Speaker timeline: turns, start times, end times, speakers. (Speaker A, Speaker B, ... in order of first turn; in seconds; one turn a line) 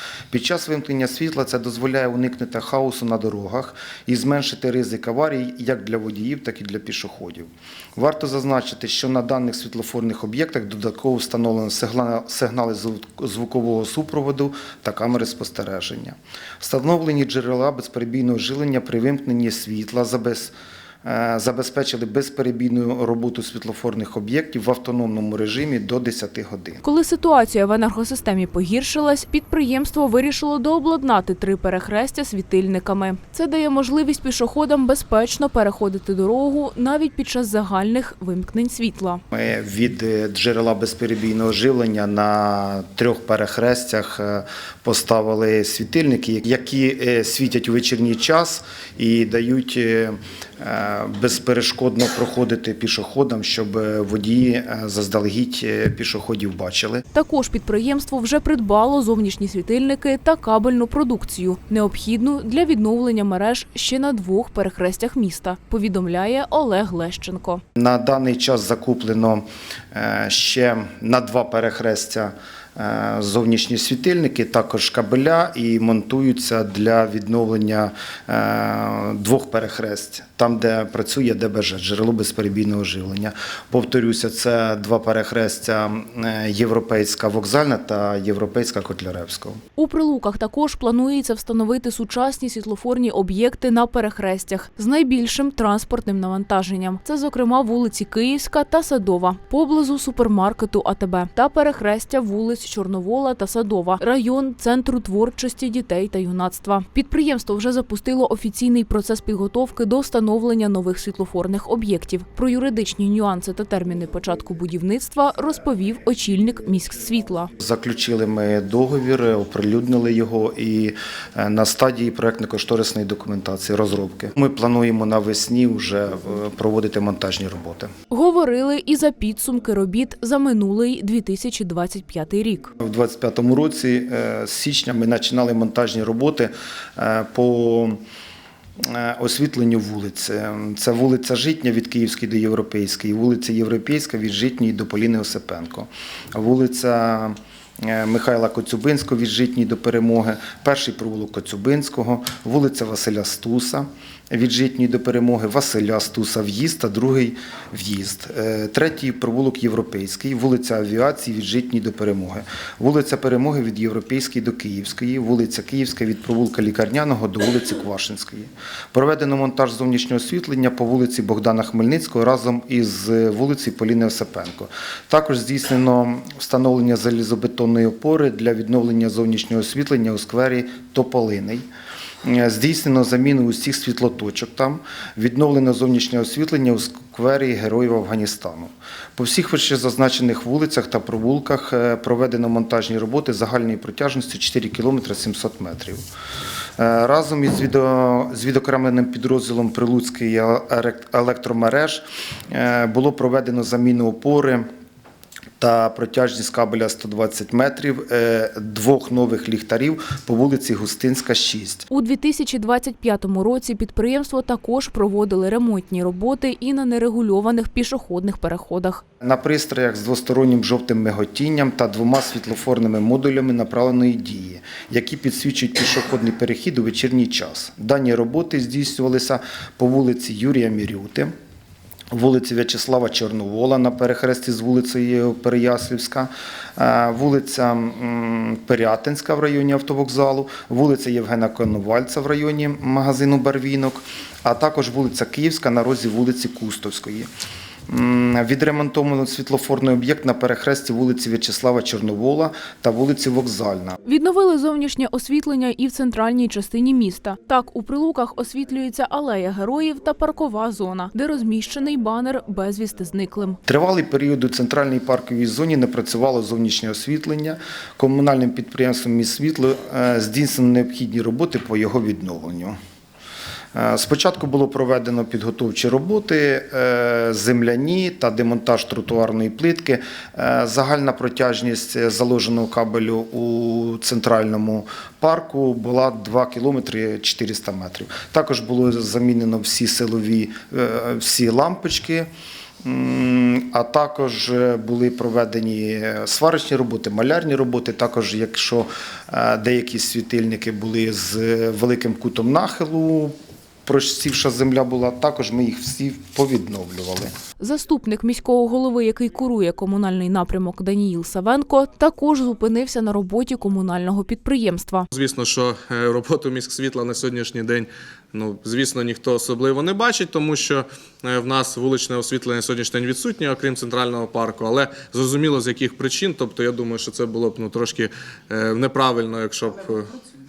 Speaker A: 0.3-20.5
Speaker A: 21.0-26.8
Speaker B: 26.8-39.2
Speaker A: 39.3-57.0
Speaker B: 57.1-67.6
Speaker A: 67.8-89.6
Speaker B: 89.8-117.5
Speaker A: 117.6-127.9
Speaker B: 128.1-132.7
Speaker A: 132.8-138.0
Speaker A: 138.8-181.6
Speaker A: 182.2-196.0
Speaker A: 196.8-204.7
Speaker A: 205.6-211.9
Speaker B: 211.9-219.0
Speaker A: 219.2-231.3
Speaker A: 232.1-247.3
Speaker A: 247.9-254.0
Speaker B: 254.0-263.6
Speaker A: 263.7-272.8
Speaker A: 273.7-292.3
Speaker A: 292.8-303.3
Speaker A: 303.9-307.3
Speaker B: 307.6-315.1
Speaker C: 315.1-330.1